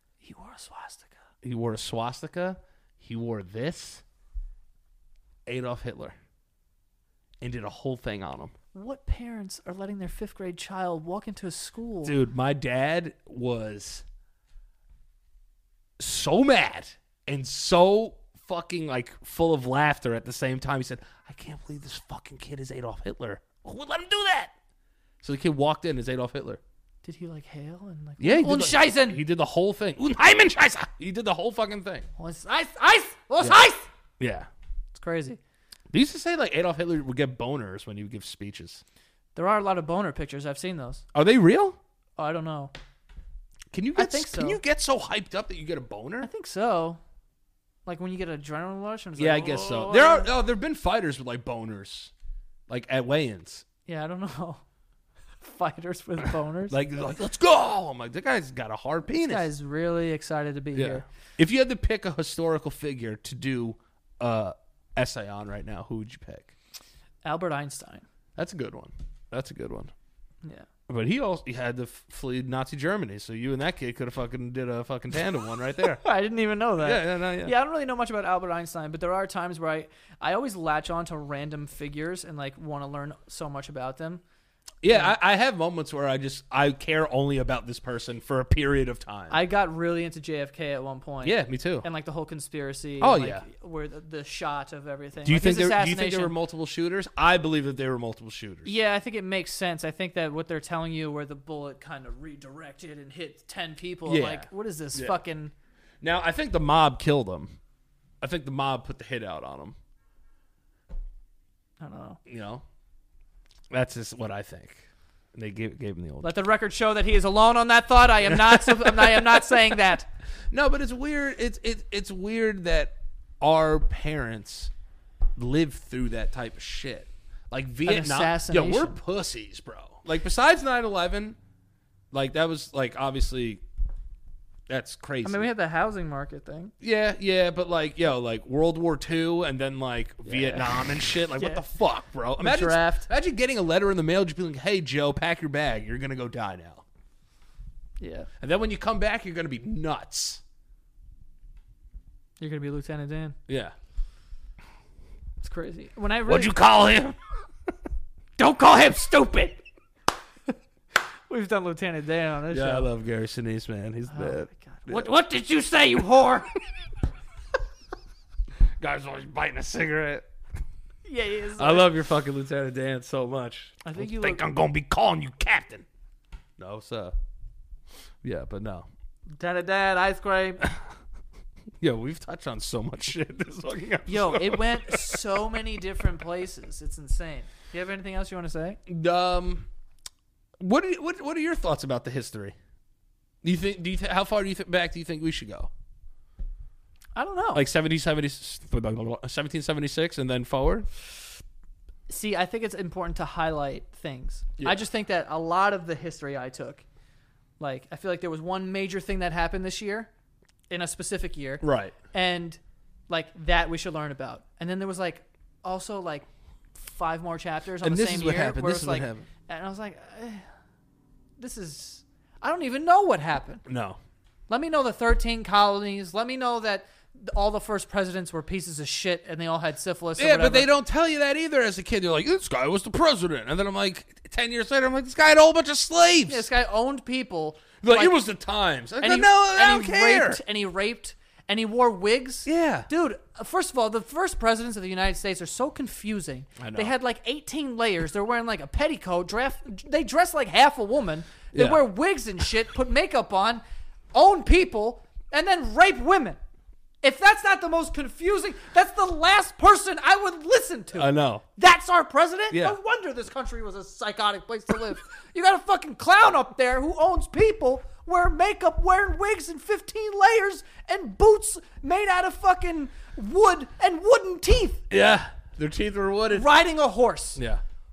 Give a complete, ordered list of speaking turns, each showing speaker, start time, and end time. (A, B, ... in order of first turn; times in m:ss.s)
0:00.2-0:01.2 A
0:01.4-0:04.0 B
0:05.4-0:06.2 B
0:07.4-0:08.5 B
0:08.7-0:12.1 A
0:12.0-0:14.0 B
0:16.0-0:24.5 B
0:25.2-0:26.6 B
0:27.0-0:29.2 A
0:28.2-0:32.1 B
0:32.2-0:33.9 A
0:34.2-0:34.5 B
0:34.9-0:35.4 A
0:35.9-0:38.8 B
0:39.3-0:41.0 A
0:41.1-0:41.8 B
0:42.2-0:42.7 A
0:43.7-0:46.3 B
0:43.9-0:44.6 A
0:46.2-0:47.0 A
0:47.8-0:50.3 A
0:49.2-0:52.1 B
0:52.7-0:53.6 B
0:53.8-0:54.6 A
0:55.4-0:56.8 A
0:56.7-0:59.5 B
0:59.2-1:01.0 A
1:00.7-1:06.5 B
1:07.2-1:08.0 A
1:08.4-1:09.9 B
1:10.9-1:16.0 B
1:16.0-1:24.2 A
1:16.8-1:17.5 B
1:24.8-1:29.4 B
1:29.3-1:36.3 A
1:31.2-1:31.8 B
1:33.0-1:33.4 B
1:35.2-1:38.8 B
1:38.6-1:45.5 A
1:44.0-1:45.2 B
1:46.0-1:47.6 B
1:48.2-1:49.8 B
1:51.8-1:52.2 A
1:52.2-1:52.6 B
1:53.7-1:56.3 B
1:56.2-2:00.1 A
1:58.2-1:59.2 B
2:00.5-2:04.7 B
2:05.4-2:11.4 B
2:07.8-2:09.0 A
2:12.1-2:13.6 B
2:14.7-2:15.5 B
2:15.2-2:16.7 A
2:16.8-2:26.8 B
2:20.2-2:21.6 A
2:22.4-2:23.1 A
2:28.0-2:28.3 A
2:28.4-2:30.4 B
2:32.4-2:33.4 A
2:33.5-2:33.7 B
2:35.4-2:36.5 A
2:36.3-2:37.2 B
2:38.4-2:39.6 A
2:41.3-2:42.9 A
2:42.5-2:45.1 B
2:44.1-2:46.5 A
2:48.8-2:50.2 B
2:51.0-2:51.9 A
2:51.6-2:55.8 B
2:53.8-2:54.4 A
2:56.6-2:57.1 B
2:58.2-2:58.9 B
2:59.4-3:00.6 A
3:01.8-3:05.2 B
3:04.1-3:08.8 A
3:08.9-3:09.7 B
3:10.6-3:12.5 B
3:13.4-3:15.7 B
3:17.2-3:17.6 A
3:17.5-3:20.9 B
3:22.1-3:26.8 A
3:27.6-3:30.1 A
3:30.7-3:40.4 A
3:31.6-3:31.9 B
3:37.8-3:39.3 B
3:41.4-3:43.6 A
3:43.6-3:44.0 B
3:44.5-3:50.7 A
3:50.2-3:56.5 B
3:56.3-3:58.1 A
3:57.8-4:00.4 B
3:59.0-4:13.6 A
4:02.4-4:02.9 B
4:06.6-4:06.9 B
4:11.5-4:11.8 B
4:14.1-4:16.4 A
4:17.0-4:34.8 A
4:20.9-4:21.4 B
4:22.5-4:22.8 B
4:34.9-4:36.5 B
4:36.3-4:37.4 A
4:37.4-4:37.6 B